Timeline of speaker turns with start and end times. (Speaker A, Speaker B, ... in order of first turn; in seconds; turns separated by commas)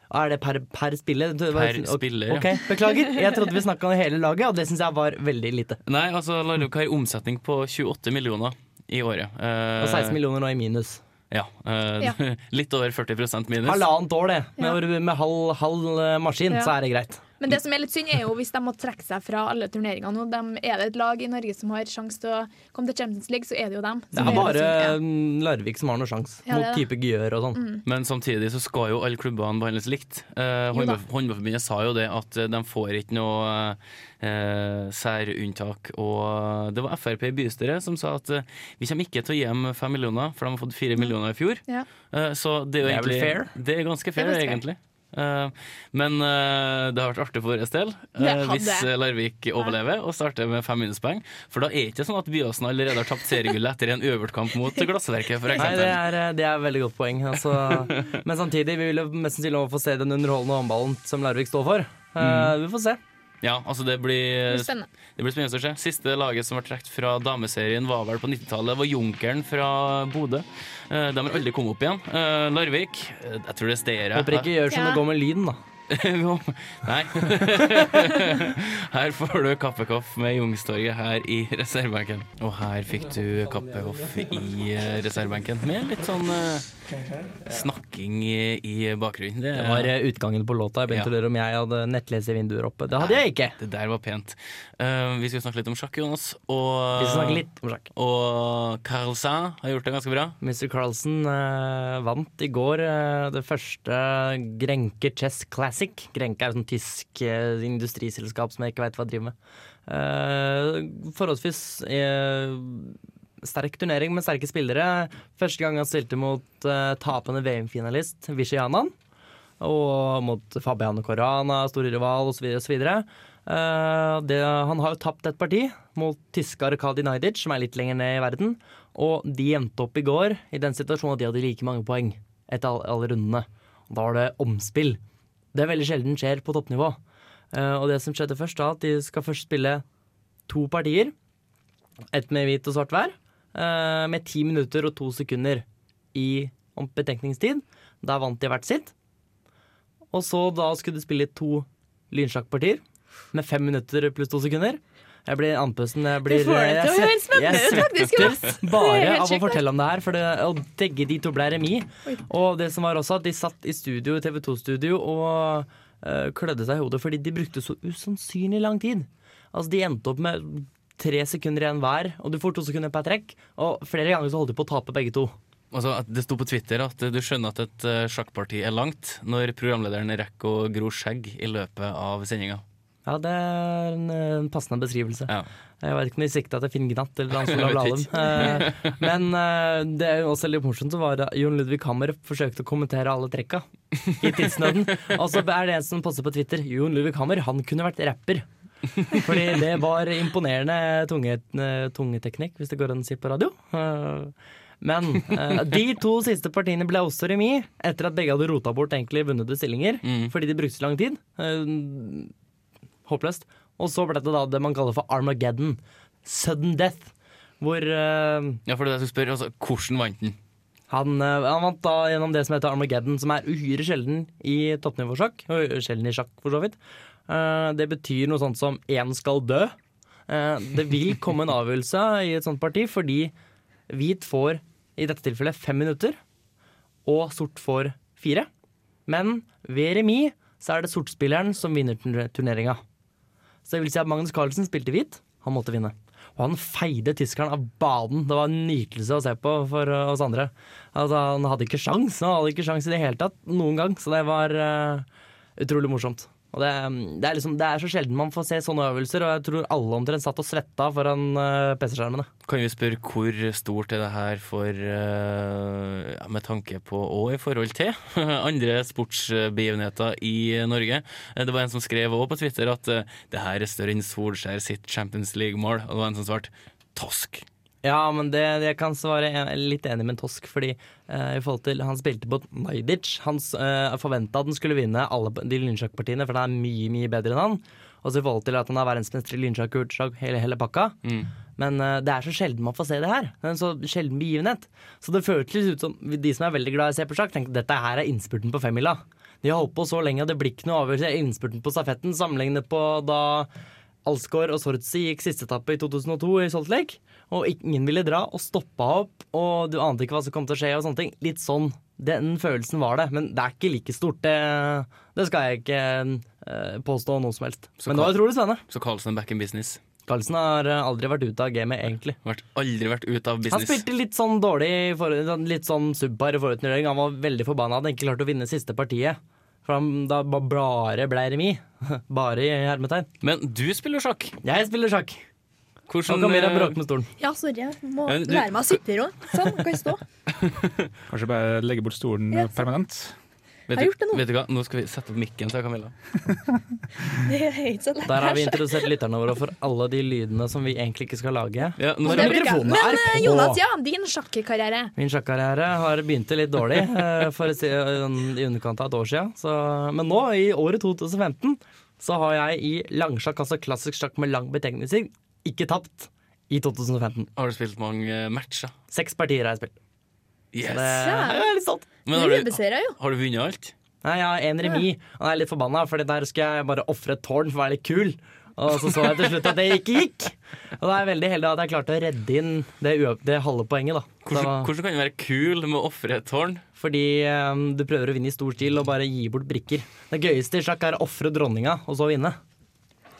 Speaker A: 0.1-5.8, Speaker B: 1.5-2.5, Speaker B: 5.8-10.2, Speaker A: 9.8-11.0, Speaker B: 11.3-13.8, Speaker A: 13.6-17.2, Speaker C: 17.4-25.0, Speaker A: 24.1-27.6, Speaker C: 26.5-26.9, Speaker C: 27.5-27.8, Speaker B: 27.8-56.0, Speaker C: 30.7-31.0, Speaker A: 42.8-43.5, Speaker C: 44.2-44.6, Speaker C: 48.2-48.9, Speaker A: 55.6-63.0, Speaker B: 57.5-58.0, Speaker B: 62.2-62.5, Speaker B: 63.4-74.5, Speaker C: 64.5-64.9, Speaker A: 74.1-75.6, Speaker C: 74.7-75.0, Speaker B: 75.9-86.7, Speaker B: 87.4-89.9, Speaker A: 89.5-93.5, Speaker B: 93.0-100.4, Speaker A: 96.9-97.9, Speaker A: 100.4-109.3, Speaker A: 109.9-118.9, Speaker A: 119.6-135.0, Speaker A: 135.5-137.0, Speaker A: 137.5-139.8, Speaker A: 140.5-141.1, Speaker A: 142.1-148.9, Speaker A: 150.1-152.8, Speaker A: 153.3-175.3, Speaker C: 156.2-159.6, Speaker B: 175.7-182.6, Speaker A: 183.1-198.5, Speaker B: 187.3-188.9, Speaker B: 194.4-194.7, Speaker A: 199.1-212.3, Speaker B: 210.0-210.3, Speaker A: 213.1-218.6, Speaker B: 218.7-220.4, Speaker A: 220.9-226.8, Speaker A: 227.3-229.8, Speaker A: 230.3-233.3, Speaker A: 233.9-236.2, Speaker A: 237.0-238.5, Speaker A: 239.1-242.8, Speaker A: 243.7-255.1, Speaker A: 255.6-262.3, Speaker B: 262.4-277.4, Speaker A: 277.8-290.9, Speaker A: 291.6-303.5, Speaker A: 304.0-318.6, Speaker B: 317.8-319.8, Speaker A: 320.1-322.1, Speaker B: 322.2-323.9, Speaker A: 323.5-333.1, Speaker B: 333.2-334.4, Speaker A: 334.4-335.2, Speaker B: 335.9-336.8, Speaker A: 336.1-337.1, Speaker C: 337.2-340.0, Speaker B: 338.1-338.8, Speaker B: 340.4-340.9, Speaker D: 341.1-343.1, Speaker C: 342.3-342.6, Speaker B: 343.7-345.9, Speaker C: 343.7-344.2, Speaker C: 347.2-348.8, Speaker A: 348.1-353.6, Speaker B: 351.8-352.6, Speaker C: 352.0-354.9, Speaker A: 354.9-367.3, Speaker B: 367.4-368.7, Speaker A: 368.9-369.8, Speaker B: 370.5-371.2, Speaker A: 370.6-371.9, Speaker C: 371.0-371.5, Speaker B: 372.1-373.7, Speaker C: 372.1-372.9, Speaker A: 374.0-384.7, Speaker B: 384.2-386.6, Speaker A: 386.8-392.4